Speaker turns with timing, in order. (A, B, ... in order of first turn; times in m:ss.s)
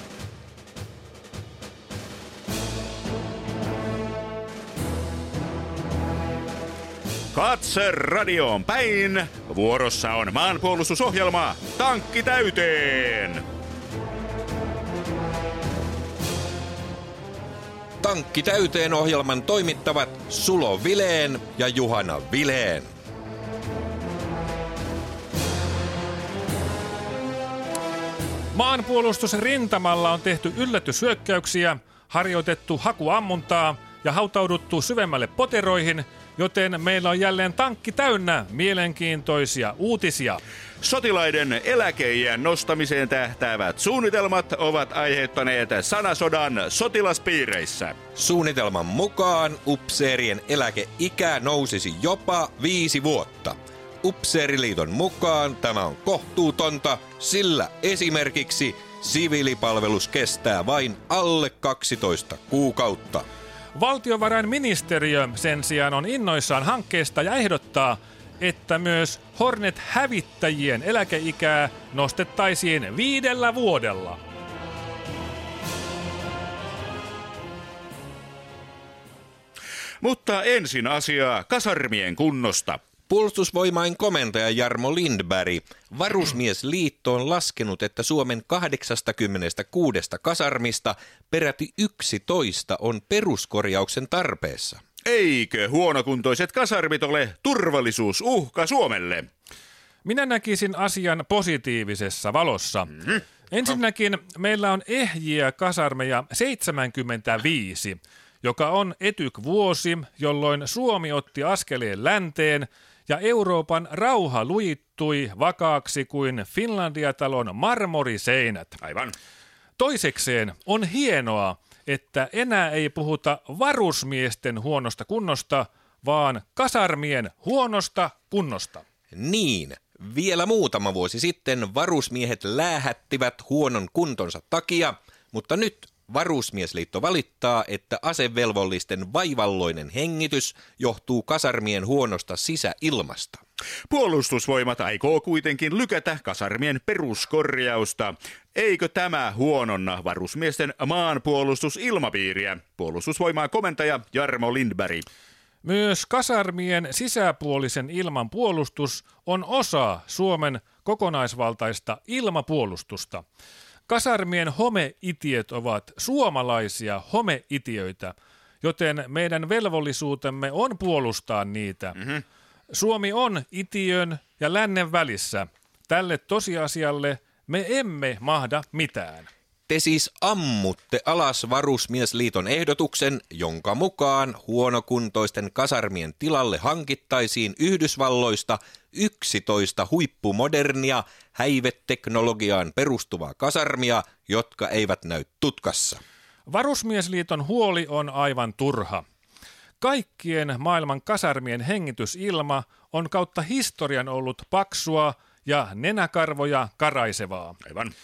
0:07.3-0:13.4 A
0:18.0-0:22.9 B
0:28.5-0:40.4 C
0:40.8-0:48.0 A
0:48.2-1:03.2 B
1:03.7-1:14.2 C
1:20.0-1:22.8 A
1:23.1-1:34.8 B
1:35.0-1:39.3 A
1:40.0-1:58.8 C
1:58.8-1:59.1 A
1:59.8-2:08.8 C
2:09.1-2:23.4 B
2:23.9-2:35.0 A
2:35.6-2:43.2 C
2:43.9-2:52.2 C
2:52.7-2:59.3 C
2:59.7-3:16.0 B
3:16.5-3:19.0 C
3:19.8-3:27.6 C
3:27.7-3:27.9 A